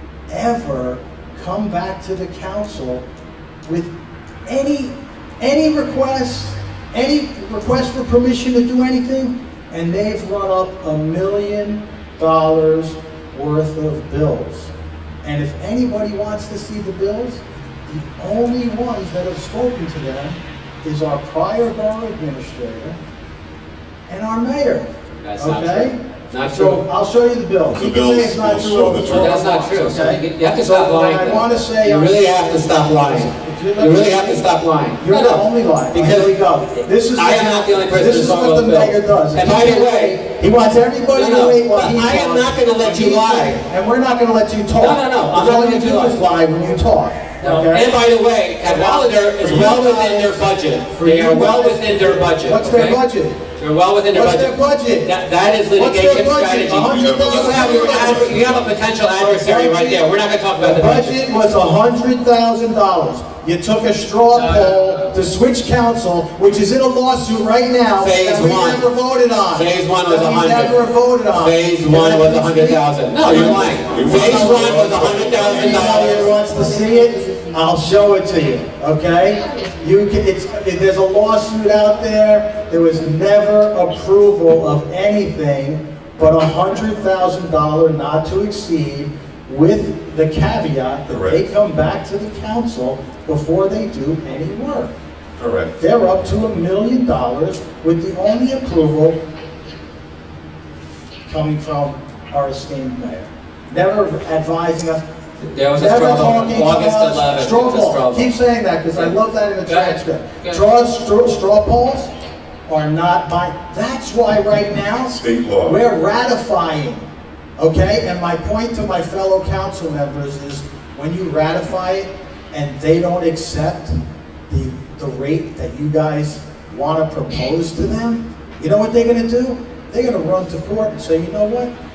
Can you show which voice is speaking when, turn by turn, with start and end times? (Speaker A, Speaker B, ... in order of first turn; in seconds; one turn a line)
Speaker A: 0.3-3.0
Speaker A: 3.6-3.9
Speaker A: 4.5-14.7
Speaker A: 15.2-23.0
Speaker A: 24.1-34.5
Speaker B: 25.2-26.8
Speaker C: 27.7-29.4
Speaker B: 29.1-40.2
Speaker A: 35.0-47.9
Speaker B: 41.1-43.6
Speaker B: 44.7-46.2
Speaker B: 47.4-53.0
Speaker A: 48.6-50.4
Speaker A: 50.9-53.4
Speaker B: 53.6-61.1
Speaker A: 54.1-55.1
Speaker A: 55.7-58.5
Speaker C: 56.9-58.6
Speaker A: 59.1-60.0
Speaker A: 60.6-94.9
Speaker B: 64.3-65.0
Speaker B: 68.0-68.9
Speaker B: 69.5-76.3
Speaker C: 73.2-76.0
Speaker C: 91.1-91.4
Speaker C: 95.4-95.8
Speaker A: 95.8-99.2
Speaker A: 101.3-105.0
Speaker B: 105.4-108.3
Speaker A: 105.7-112.1
Speaker B: 109.7-110.6
Speaker A: 112.7-117.0
Speaker C: 115.1-115.8
Speaker A: 117.6-124.0
Speaker A: 124.5-131.7